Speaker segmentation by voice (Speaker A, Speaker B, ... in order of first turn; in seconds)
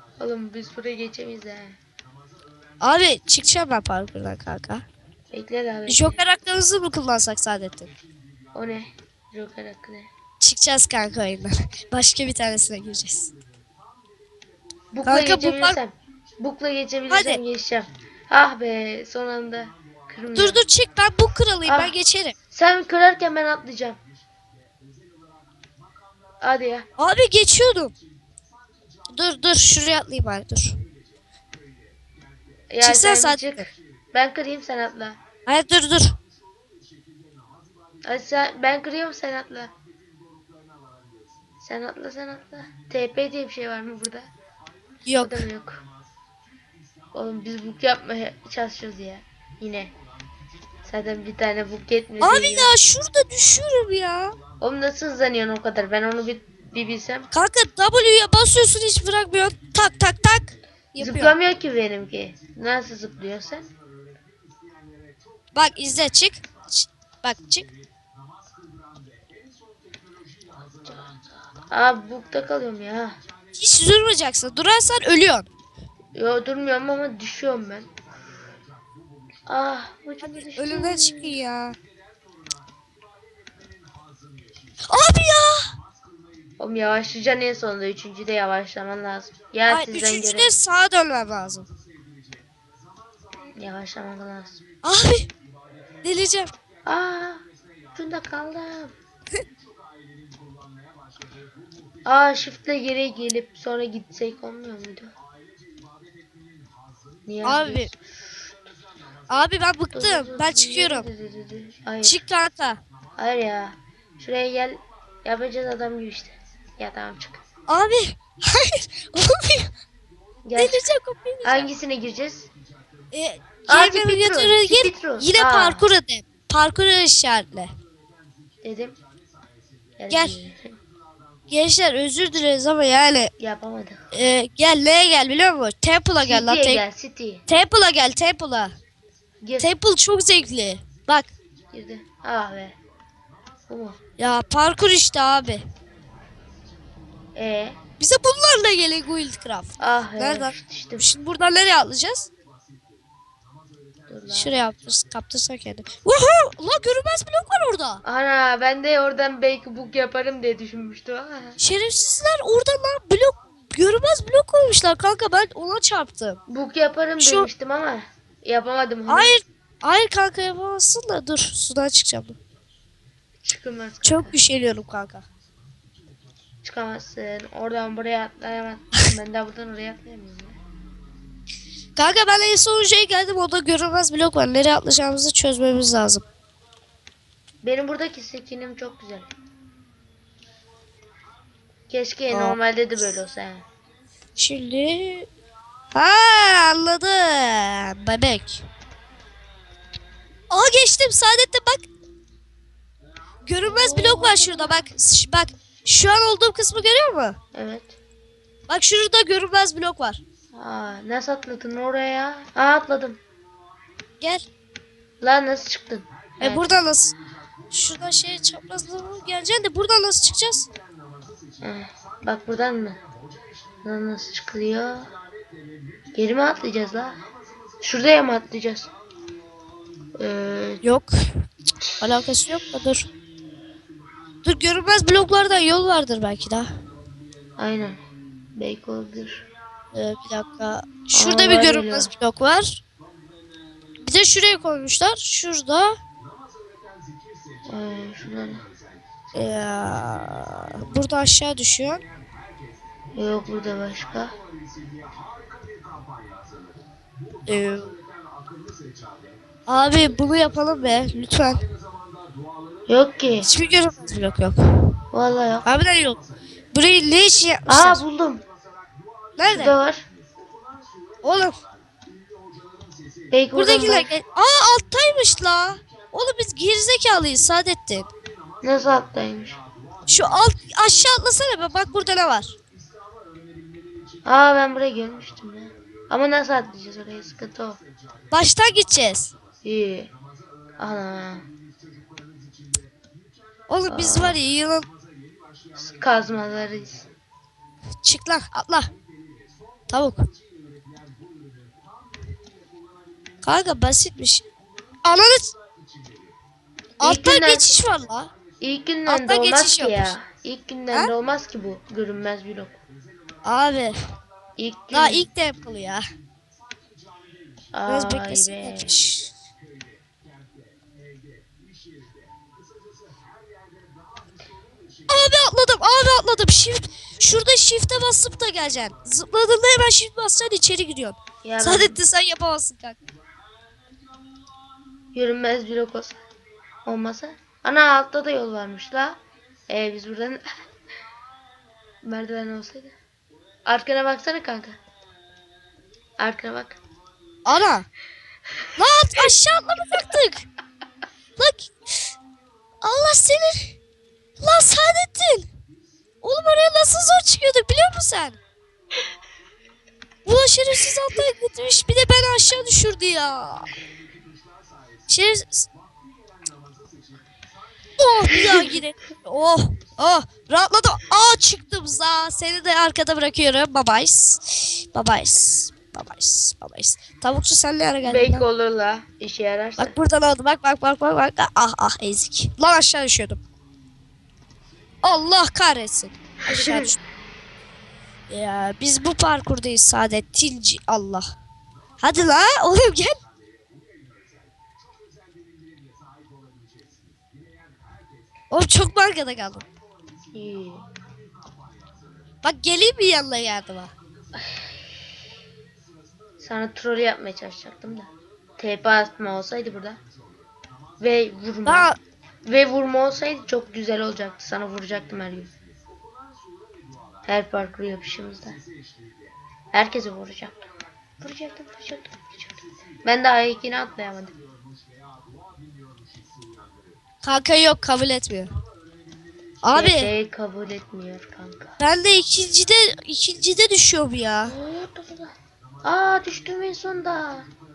Speaker A: 0.2-1.8, 5.3-6.2, 8.5-10.1, 14.9-20.6, 21.6-21.9, 22.5-24.0, 26.4-26.9, 32.7-35.2, 38.0-39.7, 41.6-44.3, 45.2-45.8, 47.1-49.9, 50.9-52.7, 54.6-57.3, 61.0-63.7, 71.7-73.2, 76.2-77.9, 79.5-81.4, 86.6-90.5, 93.6-94.6, 96.8-97.4, 97.9-98.9, 102.0-105.1, 107.3-108.0, 109.9-112.2, 113.2-117.4, 120.5-120.8, 121.4-122.5, 123.7-125.8, 128.6-129.0, 130.0-130.7, 133.4-134.1, 136.2-137.4, 139.4-139.7, 141.7-142.8, 143.7-144.0, 147.3-147.8, 149.8-151.1, 154.1-154.6, 158.0-161.6, 166.5-169.4, 173.4-174.4, 176.6-180.6, 187.6-189.3, 191.9-193.7, 203.6-204.7, 207.5-208.0, 210.5-213.2, 215.2-216.8, 221.6-223.0, 223.8-225.1, 226.2-227.2, 227.8-228.9, 230.2-230.8, 237.6-238.0, 238.5-239.5, 241.1-242.1, 247.7-248.7, 253.1-254.3, 262.9-263.5, 265.1-265.7, 267.7-268.4, 269.5-270.0, 273.3-274.1, 278.6-279.6, 284.2-287.8, 289.6-290.1, 290.8-291.4, 293.9-294.4, 295.8-297.1, 307.0-307.7, 308.6-312.8, 314.6-315.3, 317.8-318.9, 331.4-332.0, 335.1-336.2, 336.8-340.4, 342.0-342.9, 343.6-344.8, 346.2-346.8, 368.3-368.7, 378.0-379.9, 386.4-386.9, 400.3-400.8, 404.4-404.7, 406.4-410.0, 411.0-411.9, 412.4-415.5, 417.2-418.6, 419.7-420.7, 421.2-424.3, 429.7-431.8, 434.4-435.3, 435.8-437.5
Speaker B: 2.8-4.8, 5.9-7.9, 10.4-13.3, 15.0-15.8, 17.1-17.4, 20.3-22.3, 27.0-27.9, 29.1-30.8, 32.8-33.6, 35.5-36.2, 45.0-45.5, 52.2-54.4, 57.3-61.3, 65.5-67.7, 73.5-75.5, 80.2-81.8, 84.8-85.7, 89.7-91.7, 94.8-95.3, 96.0-96.5, 107.4-107.9, 109.3-111.1, 112.0-112.8, 117.7-119.7, 120.6-121.7, 123.1-127.7, 131.5-133.3, 134.1-136.8, 137.5-138.7, 139.6-141.3, 144.2-145.6, 148.0-152.3, 154.3-158.0, 161.6-166.4, 167.2-167.5, 169.1-172.4, 174.0-175.2, 182.0-186.2, 192.3-192.6, 194.4-195.3, 195.9-198.7, 200.5-201.8, 203.4-207.4, 208.7-210.2, 216.4-217.1, 217.7-220.7, 230.8-231.1, 232.0-233.1, 234.4-236.7, 239.9-242.8, 244.0-246.0, 249.3-252.0, 257.5-258.0, 259.7-261.6, 263.4-264.6, 265.6-266.2, 266.7-268.0, 269.4-269.7, 271.2-271.6, 273.5-278.1, 280.1-282.6, 288.3-289.3, 293.7-294.9, 298.0-298.9, 299.9-300.3, 303.4-304.4, 305.0-305.5, 307.0-308.3, 309.1-310.1, 313.4-313.9, 314.9-316.0, 317.9-319.3, 325.1-333.0, 347.4-347.9, 348.8-350.5, 351.4-352.0, 352.8-353.8, 354.4-355.5, 356.2-358.4, 360.2-363.7, 365.1-365.7, 368.0-378.4, 379.8-383.4, 385.0-387.0, 388.3-391.2, 392.0-393.2, 398.5-399.6, 402.4-403.9, 411.6-412.0, 427.2-428.5, 429.6-430.1, 431.8-434.5